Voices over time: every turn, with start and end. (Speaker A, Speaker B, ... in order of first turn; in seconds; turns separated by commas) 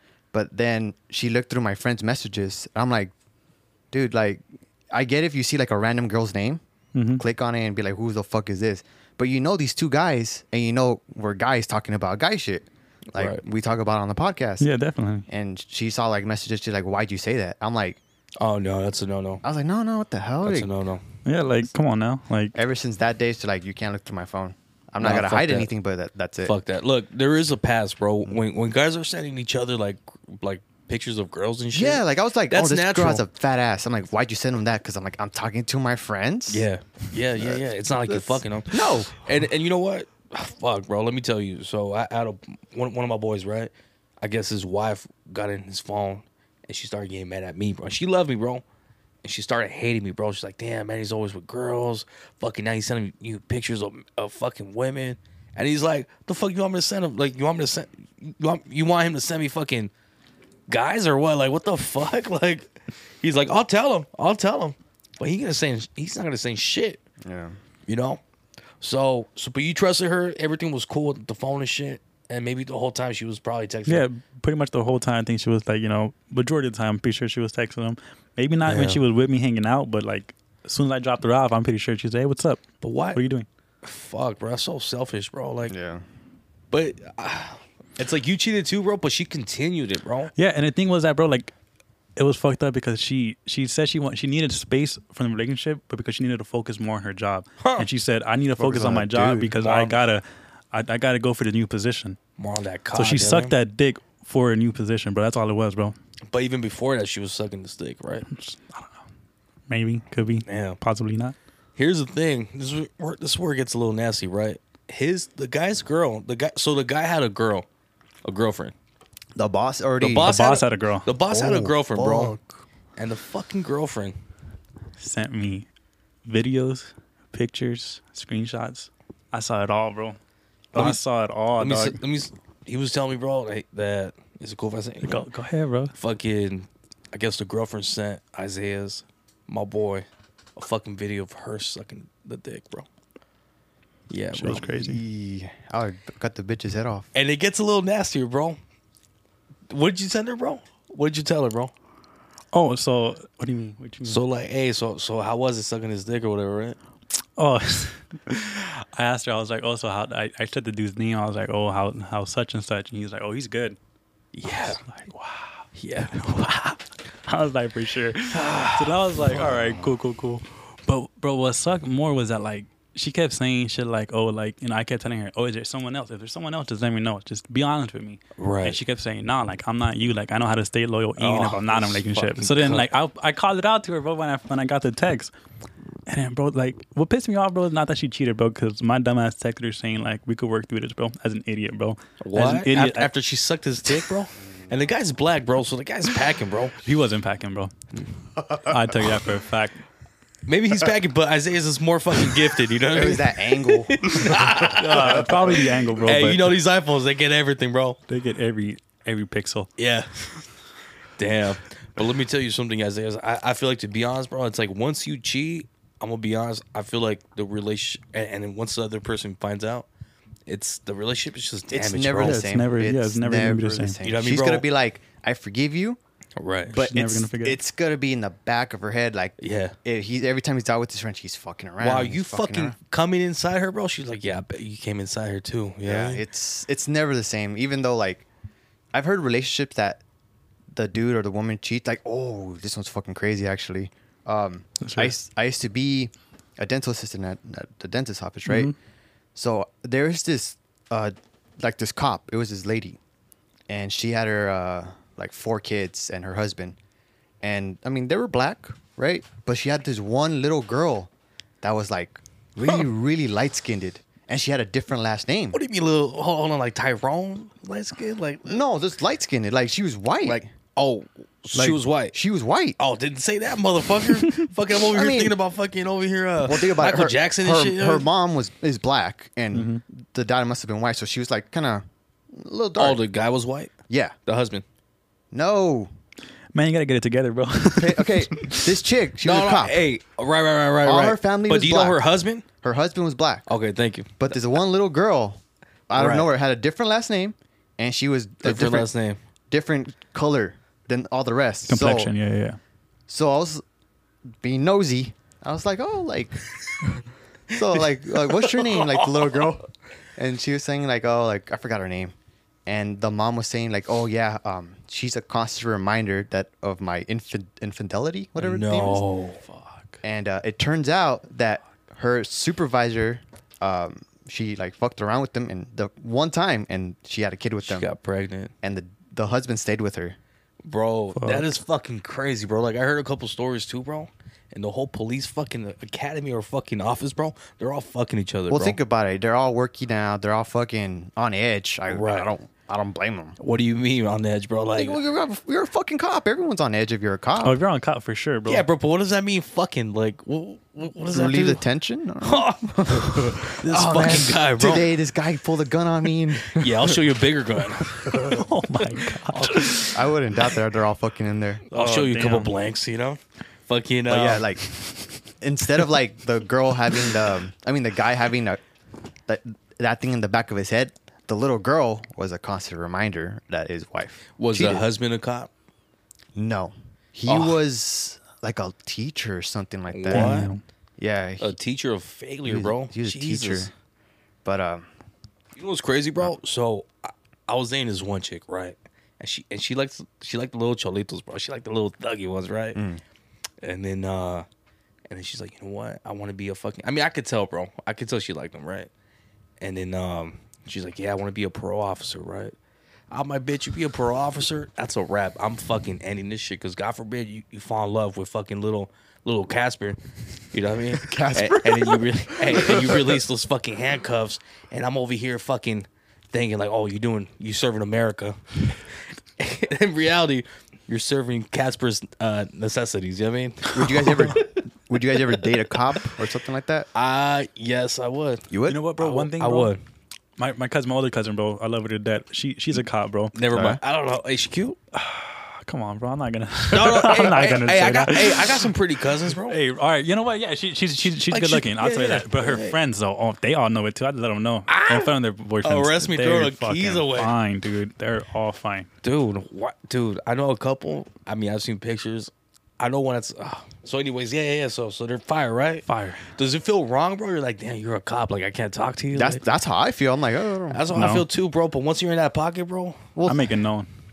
Speaker A: 0.3-3.1, Speaker A: 3.9-6.6, Speaker B: 6.9-7.2, Speaker A: 7.2-14.7, Speaker C: 13.1-13.4, Speaker B: 14.6-15.2, Speaker A: 15.3-18.0, Speaker C: 18.4-19.4, Speaker A: 19.4-20.7, Speaker C: 20.4-21.0, Speaker B: 21.2-22.6, Speaker A: 22.5-26.5, Speaker C: 25.0-25.7, Speaker C: 26.4-33.2, Speaker A: 31.7-36.7, Speaker C: 36.5-48.6, Speaker A: 37.4-39.2, Speaker C: 49.2-59.9, Speaker C: 60.7-67.0, Speaker A: 67.2-67.5, Speaker C: 67.9-68.2, Speaker C: 68.8-74.0, Speaker B: 73.8-82.6, Speaker C: 78.7-79.0, Speaker C: 82.8-83.2, Speaker B: 83.1-83.5, Speaker C: 83.8-85.7, Speaker A: 85.7-86.0, Speaker C: 86.7-90.3, Speaker B: 90.3-91.5, Speaker B: 92.2-102.2, Speaker C: 97.6-97.9, Speaker A: 98.6-99.5, Speaker C: 99.6-100.0, Speaker C: 102.4-103.5, Speaker B: 102.9-106.0, Speaker C: 106.3-108.3, Speaker B: 108.3-109.0, Speaker B: 109.7-111.3, Speaker C: 110.5-110.8, Speaker C: 111.8-117.6, Speaker C: 118.2-118.7, Speaker A: 119.3-120.3, Speaker C: 120.0-122.4, Speaker B: 120.2-121.1, Speaker A: 121.3-122.4, Speaker C: 123.0-124.2, Speaker B: 125.0-125.7, Speaker B: 126.2-130.2, Speaker B: 130.7-132.0, Speaker C: 130.7-131.0, Speaker C: 131.6-135.3, Speaker B: 135.0-135.9, Speaker C: 135.9-142.8, Speaker C: 144.1-144.6, Speaker B: 144.3-145.0, Speaker A: 144.4-147.1, Speaker C: 147.1-148.6, Speaker C: 149.7-151.7, Speaker B: 152.5-154.2, Speaker C: 154.0-156.8, Speaker B: 157.4-163.8, Speaker C: 164.3-164.8, Speaker B: 164.5-185.3, Speaker C: 165.8-166.2, Speaker C: 168.3-169.8, Speaker C: 178.4-178.8, Speaker C: 181.2-182.9, Speaker B: 186.1-193.1, Speaker C: 192.2-196.7, Speaker B: 196.8-197.7, Speaker A: 198.4-199.1, Speaker B: 198.5-199.8, Speaker C: 200.4-208.0, Speaker A: 202.9-205.3, Speaker B: 204.5-206.5, Speaker B: 208.1-209.7, Speaker C: 209.8-210.3, Speaker C: 211.2-219.8, Speaker C: 220.5-222.5, Speaker A: 221.7-226.0, Speaker B: 222.2-224.0, Speaker C: 224.0-224.7, Speaker C: 226.4-226.8, Speaker A: 226.7-232.8, Speaker B: 226.8-227.6, Speaker C: 229.4-229.8, Speaker C: 231.8-236.2, Speaker A: 235.8-238.2, Speaker A: 238.9-240.0, Speaker A: 240.7-248.7, Speaker B: 244.8-245.1, Speaker B: 248.5-248.7, Speaker A: 249.3-253.0, Speaker A: 253.7-256.8, Speaker A: 257.4-261.1, Speaker A: 261.6-265.6, Speaker C: 265.5-268.6, Speaker A: 268.4-270.5, Speaker C: 270.2-272.2, Speaker A: 271.5-272.8, Speaker C: 272.8-278.1, Speaker A: 274.9-275.4, Speaker A: 276.4-283.0, Speaker B: 279.5-279.8, Speaker C: 282.8-283.7, Speaker A: 283.9-284.1, Speaker C: 284.2-284.6, Speaker A: 285.3-285.9, Speaker B: 286.5-288.7, Speaker A: 287.8-289.9, Speaker C: 289.2-292.4, Speaker A: 290.8-292.0, Speaker A: 292.6-293.5, Speaker C: 293.5-294.4, Speaker A: 294.2-298.9, Speaker C: 295.9-296.3, Speaker C: 298.4-299.2, Speaker A: 299.5-302.1, Speaker B: 301.7-302.6, Speaker A: 303.1-303.6, Speaker A: 304.4-306.4, Speaker A: 307.5-312.1, Speaker C: 307.5-309.5, Speaker A: 312.6-319.0, Speaker C: 318.4-319.4, Speaker B: 319.5-320.0, Speaker A: 320.0-327.9, Speaker C: 327.6-328.5, Speaker A: 328.6-330.2, Speaker C: 330.6-338.8, Speaker B: 331.1-331.6, Speaker A: 338.5-343.4, Speaker C: 341.9-342.3, Speaker C: 343.4-345.0, Speaker A: 344.8-347.6, Speaker B: 347.4-348.6, Speaker C: 348.5-351.6, Speaker A: 351.1-357.1, Speaker C: 352.2-354.9, Speaker C: 356.5-360.0, Speaker A: 358.0-358.4, Speaker B: 358.1-360.0, Speaker A: 359.9-361.6, Speaker B: 361.7-362.5, Speaker C: 361.7-364.5, Speaker A: 364.1-364.7, Speaker A: 365.4-368.6, Speaker A: 369.3-374.8, Speaker C: 374.4-375.5, Speaker A: 376.3-380.5, Speaker C: 377.3-377.6, Speaker C: 379.9-380.5, Speaker B: 380.1-380.6, Speaker A: 381.0-381.5, Speaker C: 381.4-383.7, Speaker A: 382.4-383.7, Speaker A: 384.4-384.9, Speaker C: 385.6-392.8, Speaker A: 392.7-393.0, Speaker C: 393.6-394.4, Speaker C: 395.1-398.9, Speaker C: 399.6-402.5, Speaker C: 403.1-410.0, Speaker C: 410.5-418.6, Speaker A: 411.0-413.2, Speaker C: 419.4-424.5, Speaker A: 423.7-426.9, Speaker C: 425.3-425.6, Speaker C: 426.9-429.8, Speaker A: 428.5-428.8, Speaker B: 428.6-429.7, Speaker B: 430.4-433.3, Speaker C: 433.3-434.8, Speaker A: 433.5-433.8, Speaker B: 434.9-438.7, Speaker C: 436.7-439.6, Speaker B: 439.4-448.9, Speaker C: 441.3-442.8, Speaker C: 444.7-447.3, Speaker C: 449.0-459.4, Speaker B: 455.9-456.2, Speaker A: 459.1-461.1, Speaker C: 460.7-463.0, Speaker B: 460.9-461.2, Speaker A: 463.1-463.4, Speaker B: 463.2-463.9